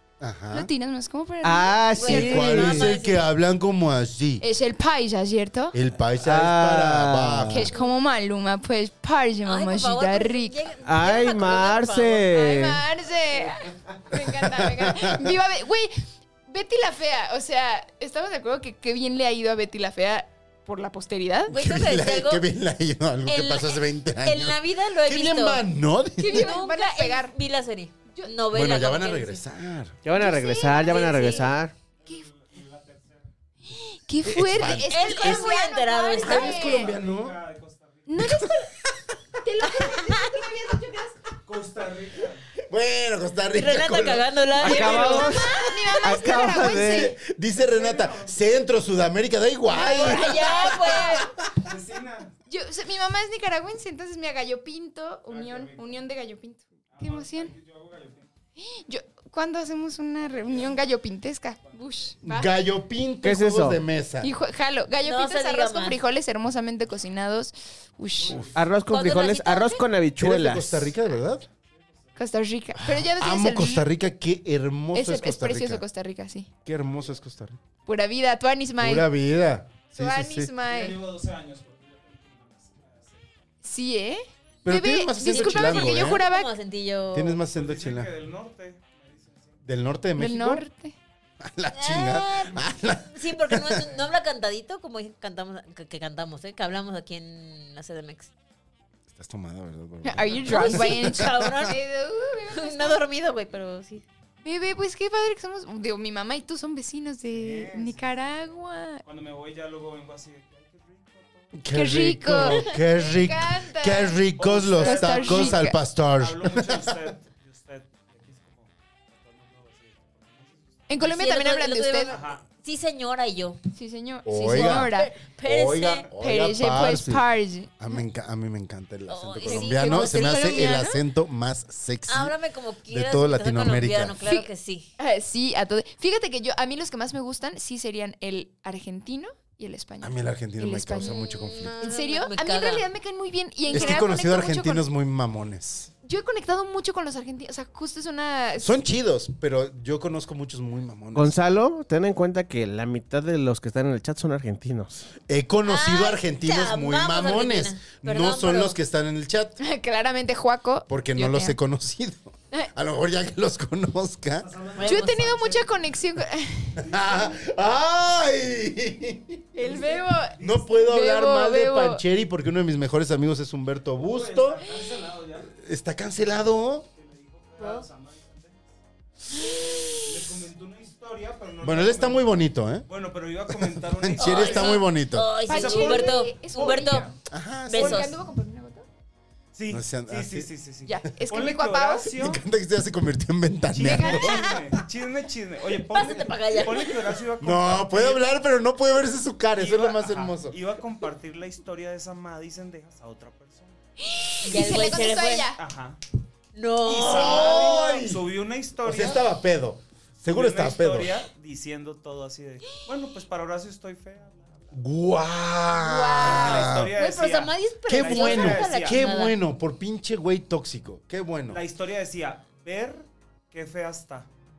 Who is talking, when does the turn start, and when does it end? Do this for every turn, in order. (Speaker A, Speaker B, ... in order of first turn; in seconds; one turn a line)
Speaker A: 0.2-0.7
Speaker B: 0.5-1.9
Speaker C: 1.4-2.9
Speaker D: 1.9-3.2
Speaker A: 2.0-4.4
Speaker B: 4.4-5.8
Speaker A: 5.7-7.7
Speaker C: 6.2-7.7
Speaker B: 7.5-10.6
Speaker D: 9.4-12.5
Speaker C: 10.8-12.8
Speaker B: 12.3-21.5
Speaker A: 14.1-15.3
Speaker A: 21.5-26.5
Speaker D: 21.5-22.4
Speaker D: 23.3-25.6
Speaker B: 26.2-27.3
Speaker D: 26.2-29.4
Speaker A: 28.5-30.0
Speaker C: 30.0-31.7
Speaker B: 30.1-31.2
Speaker D: 30.5-31.5
Speaker E: 32.0-33.3
Speaker B: 33.7-36.9
Speaker A: 34.2-35.5
Speaker D: 34.7-36.7
Speaker A: 36.2-37.4
Speaker E: 36.6-38.3
Speaker B: 38.1-38.7
Speaker A: 38.2-38.9
Speaker B: 39.4-41.2
Speaker E: 41.4-42.4
Speaker A: 42.6-45.2
Speaker D: 43.5-45.3
Speaker C: 44.6-47.1
Speaker B: 44.8-47.2
Speaker A: 46.3-51.5
Speaker E: 47.5-48.4
Speaker B: 49.7-51.2
Speaker D: 49.7-51.2
Speaker E: 51.5-52.3
Speaker B: 52.5-57.5
Speaker E: 55.3-55.9
Speaker E: 56.9-58.3
Speaker B: 58.6-62.5
Speaker E: 60.2-60.9
Speaker E: 61.6-62.1
Speaker A: 62.2-64.3
Speaker C: 63.2-63.8
Speaker B: 64.2-68.4
Speaker D: 65.0-66.0
Speaker E: 68.1-69.0
Speaker A: 68.3-68.5
Speaker C: 68.5-70.9
Speaker D: 68.8-69.8
Speaker A: 70.2-71.5
Speaker E: 71.4-72.3
Speaker B: 72.2-73.9
Speaker A: 72.8-75.8
Speaker B: 74.9-76.5
Speaker A: 76.6-77.6
Speaker E: 76.8-77.2
Speaker B: 77.8-79.1
Speaker A: 78.8-80.5
Speaker B: 80.0-81.0
Speaker E: 80.6-83.4
Speaker B: 83.6-86.5
Speaker A: 84.6-86.2
Speaker D: 85.2-87.4
Speaker A: 87.1-88.1
Speaker E: 87.5-89.6
Speaker A: 89.6-90.6
Speaker B: 90.2-90.9
Speaker A: 91.4-94.0
Speaker D: 91.7-98.3
Speaker A: 99.1-101.6
Speaker B: 100.0-103.0
Speaker D: 100.5-101.8
Speaker D: 102.5-104.0
Speaker B: 104.4-109.0
Speaker E: 107.3-108.5
Speaker E: 109.0-111.6
Speaker A: 111.5-117.1
Speaker B: 111.7-114.2
Speaker E: 114.3-121.1
Speaker B: 114.8-115.8
Speaker B: 120.9-122.1
Speaker D: 121.0-123.6
Speaker E: 122.0-122.5
Speaker B: 123.7-125.1
Speaker A: 124.2-124.9
Speaker D: 124.5-126.1
Speaker A: 125.4-127.2
Speaker B: 126.2-127.8
Speaker A: 127.8-132.3
Speaker D: 129.1-130.6
Speaker B: 129.4-131.0
Speaker D: 132.1-134.9
Speaker A: 132.9-134.2
Speaker B: 135.0-141.2
Speaker A: 140.0-141.7
Speaker D: 141.0-142.8
Speaker B: 141.8-144.8
Speaker D: 143.7-143.9
Speaker A: 143.7-145.9
Speaker B: 146.0-148.8
Speaker A: 148.6-151.3
Speaker C: 151.1-155.1
Speaker A: 155.3-159.6
Speaker D: 155.7-158.8
Speaker B: 159.6-161.6
Speaker A: 160.9-164.5
Speaker E: 164.4-165.7
Speaker D: 164.8-165.2
Speaker B: 164.8-167.0
Speaker A: 166.8-169.8
Speaker E: 166.8-167.2
Speaker B: 169.5-172.0
Speaker E: 169.7-170.7
Speaker A: 170.4-174.6
Speaker E: 174.0-175.5
Speaker A: 175.5-176.8
Speaker E: 176.8-178.8
Speaker B: 177.6-177.8
Speaker B: 179.4-179.9
Speaker D: 179.6-180.0
Speaker E: 180.0-184.8
Speaker A: 181.6-182.9
Speaker A: 183.5-185.3
Speaker D: 184.2-187.1
Speaker B: 185.4-187.1
Speaker E: 185.5-187.1
Speaker A: 187.3-188.1
Speaker D: 187.7-188.1
Speaker B: 187.7-188.8
Speaker E: 189.5-192.4
Speaker A: 189.7-190.5
Speaker B: 190.8-192.1
Speaker A: 192.1-194.7
Speaker E: 193.7-198.2
Speaker B: 193.8-194.6
Speaker D: 195.9-197.0
Speaker A: 197.4-200.6
Speaker E: 199.5-203.8
Speaker B: 204.0-205.6
Speaker D: 204.4-205.5
Speaker E: 204.5-204.9
Speaker E: 205.6-206.0
Speaker D: 206.5-207.8
Speaker E: 206.8-209.3
Speaker A: 206.9-208.3
Speaker A: 208.8-211.2
Speaker E: 210.2-214.8
Speaker A: 214.7-216.9
Speaker B: 215.7-216.7
Speaker E: 216.2-219.1
Speaker D: 217.0-219.4
Speaker A: 217.9-221.6
Speaker E: 221.5-224.3